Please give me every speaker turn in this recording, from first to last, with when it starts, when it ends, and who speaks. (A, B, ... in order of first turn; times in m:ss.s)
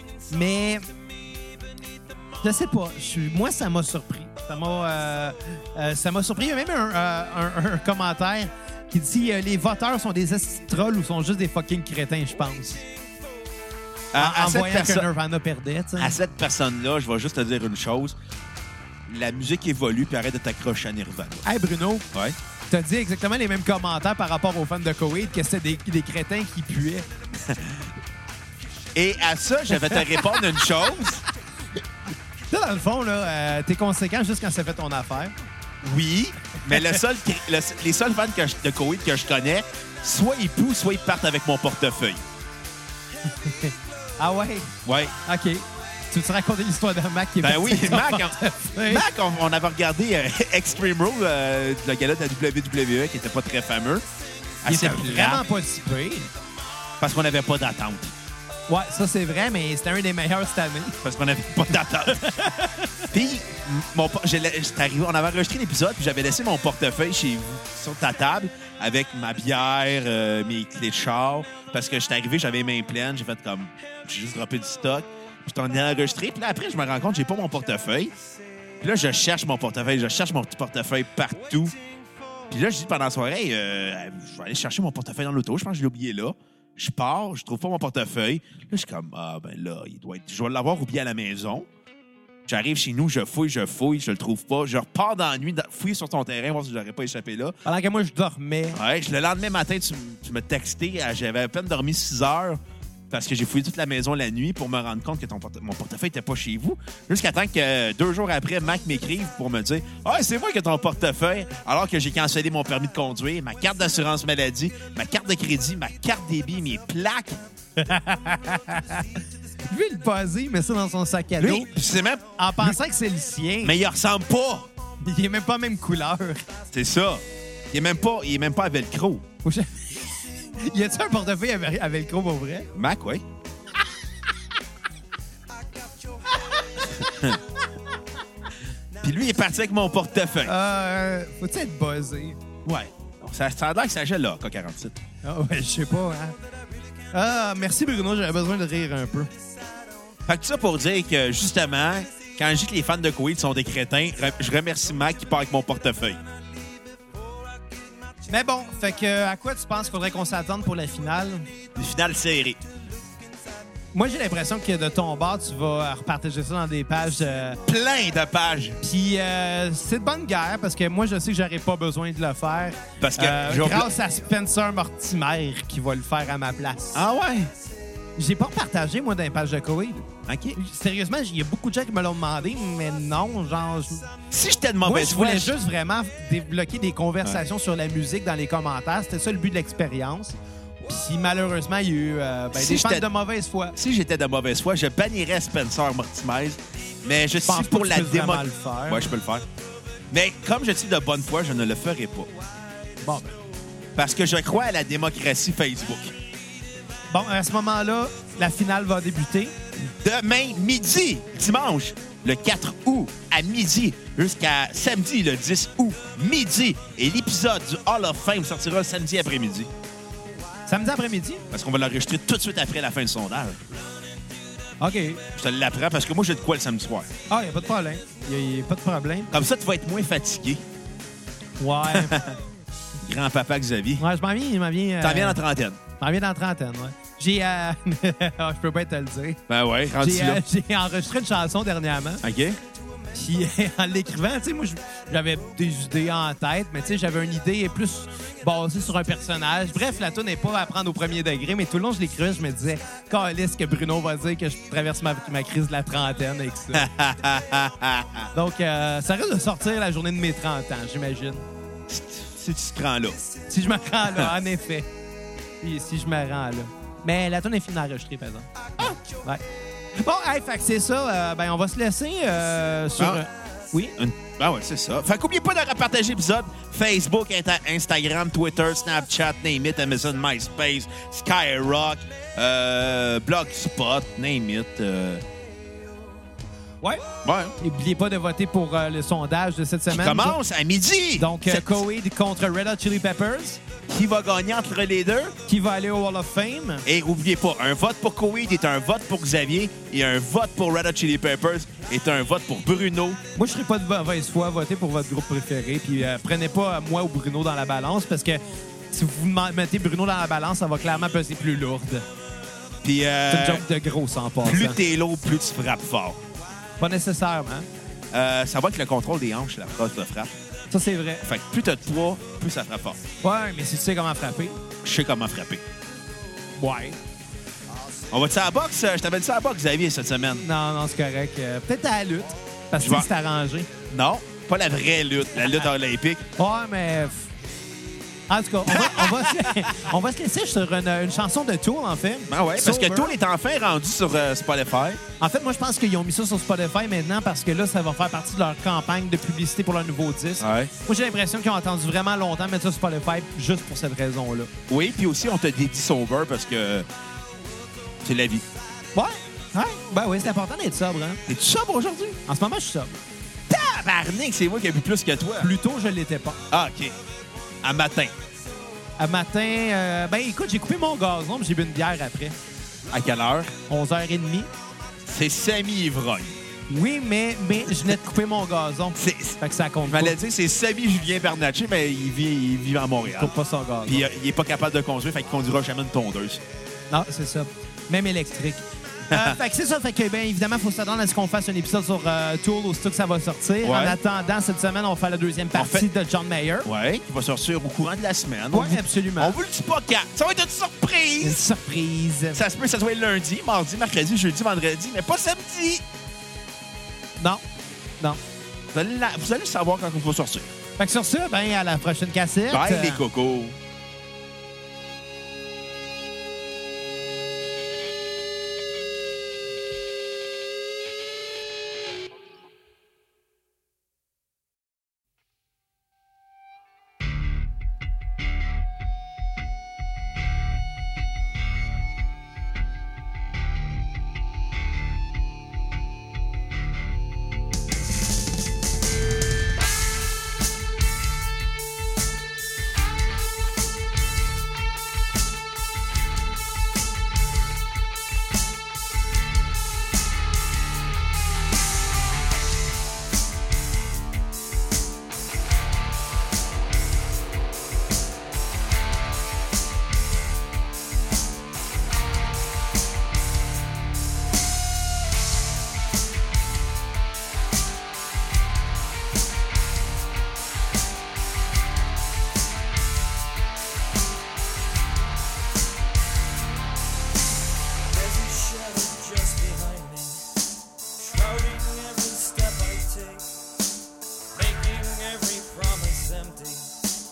0:00.3-0:00.8 A
0:02.4-0:12.8 A
0:14.1-0:15.1 B
0:14.2-0:16.1 A
0:16.0-0:18.2 B
0:19.1-0:21.4 B
0:21.4-0:22.1 A
0:22.7-0:27.1 A
0:27.4-0:27.8 B
0:28.9-0:31.2 B
0:29.7-0:30.4 A
0:32.5-0:35.3 A
0:35.8-0:42.2 B
0:36.6-0:37.0 A
0:43.3-0:44.7 A
0:44.8-0:45.2 B
0:45.2-0:49.0 A
0:47.4-0:54.0 B
0:54.6-0:55.4 B
0:54.6-0:56.3 A
0:57.0-0:58.1 B
0:58.7-1:01.0 A
1:01.0-1:02.3 B
1:02.0-1:03.1 A
1:03.1-1:18.1 B
1:18.8-1:21.8 B
1:22.5-1:31.7 B
1:32.5-1:37.5 B
1:37.6-1:38.8 A
1:38.7-1:57.4 B
1:57.8-1:59.1 A
1:59.7-2:01.7 A
2:01.4-2:02.8 B
2:02.4-2:03.7 A
2:03.6-2:04.7 B
2:05.0-2:06.4 A
2:06.7-2:09.2 B
2:09.4-2:12.7 A
2:12.7-2:13.2 B
2:16.3-2:17.6 A
2:17.0-2:17.4 B
2:19.0-2:20.5 B
2:20.4-2:22.4 A
2:22.6-2:25.0 B
2:25.2-2:26.4 A
2:27.1-2:29.3 A
2:30.3-2:36.2 B
2:38.3-2:41.5 A
2:41.8-2:42.6 B
2:43.9-2:47.6 A
2:47.6-2:48.8 B
2:48.8-2:57.0 A
2:53.0-2:53.9 B
2:56.9-2:57.5 B
2:58.2-3:04.1 A
3:00.3-3:00.6 B
3:04.3-3:05.5 B
3:04.8-3:13.7 A
3:12.5-3:13.1 B
3:13.7-3:19.4 B
3:17.5-3:19.1 A
3:20.1-3:22.3 B
3:23.0-3:23.3 A
3:24.0-3:26.1 B
3:27.1-3:29.5 A
3:29.9-3:39.7 B
3:40.7-3:41.4 A
3:41.5-3:43.7 B
3:44.8-3:45.2 A
3:45.3-3:47.1 B
3:47.3-3:49.3 A
3:49.3-3:50.6 B
3:51.6-3:52.2 A
3:51.8-3:52.3 B
3:53.0-3:54.0 B
3:54.0-3:55.4 A
3:55.0-3:55.8 B
3:56.0-3:59.4 A
3:59.5-4:00.4 B
4:00.0-4:02.2 A
4:02.2-4:02.6 B
4:03.1-4:16.9 A
4:16.7-4:18.3 B
4:18.3-4:21.4 A
4:21.9-4:23.2 B
4:23.5-4:24.9 A
4:25.6-4:29.4 A
4:30.0-4:33.9 A
4:34.0-4:45.2 B
4:47.2-4:47.5 B
4:47.6-4:50.4 A
4:49.9-4:51.8 B
4:51.2-4:53.6 A
4:53.9-4:55.4 B
4:55.5-4:56.8 A
4:56.8-5:03.2 B
5:03.3-5:12.0 A
5:12.8-5:13.6 B
5:13.3-5:14.8 A
5:14.4-5:16.2 B
5:16.8-5:17.7 A
5:18.1-5:20.3 B
5:20.7-5:21.2 A
5:21.2-5:23.0 B
5:23.2-5:24.6 A
5:24.8-5:25.6 B
5:26.6-5:27.0 A
5:28.1-5:30.4 B
5:30.4-5:33.7 A
5:32.8-5:33.1 B
5:33.9-5:36.2 B
5:36.4-5:37.3 A
5:38.3-5:43.1 A
5:38.7-5:39.9 B
5:42.3-5:45.0 B
5:45.2-5:54.5 A
5:50.4-5:50.7 B
5:54.7-5:56.9 B
5:58.0-5:58.4 B
5:58.9-6:01.2 A
6:01.3-6:02.2 B
6:02.3-6:03.0 A
6:03.5-6:05.5 B
6:05.4-6:06.4 A
6:06.5-6:06.9 B
6:07.6-6:08.1 B
6:09.0-6:12.4 A
6:12.9-6:13.5 B
6:13.7-6:14.5 A
6:15.1-6:16.3 B
6:16.7-6:20.2 A
6:19.0-6:23.3 B
6:23.0-6:24.0 A
6:23.8-6:26.4 B
6:26.9-6:36.7 A
6:29.1-6:29.4 B
6:33.6-6:34.0 B
6:35.5-6:35.9 B
6:36.6-6:41.4 B
6:38.5-6:39.4 A
6:41.2-6:42.4 A
6:42.3-6:45.8 B
6:48.7-6:50.5 B
6:50.8-6:53.0 A
6:52.5-6:53.6 B
7:57.8-8:00.3 C
8:01.0-8:03.3 C
8:04.3-8:06.7 C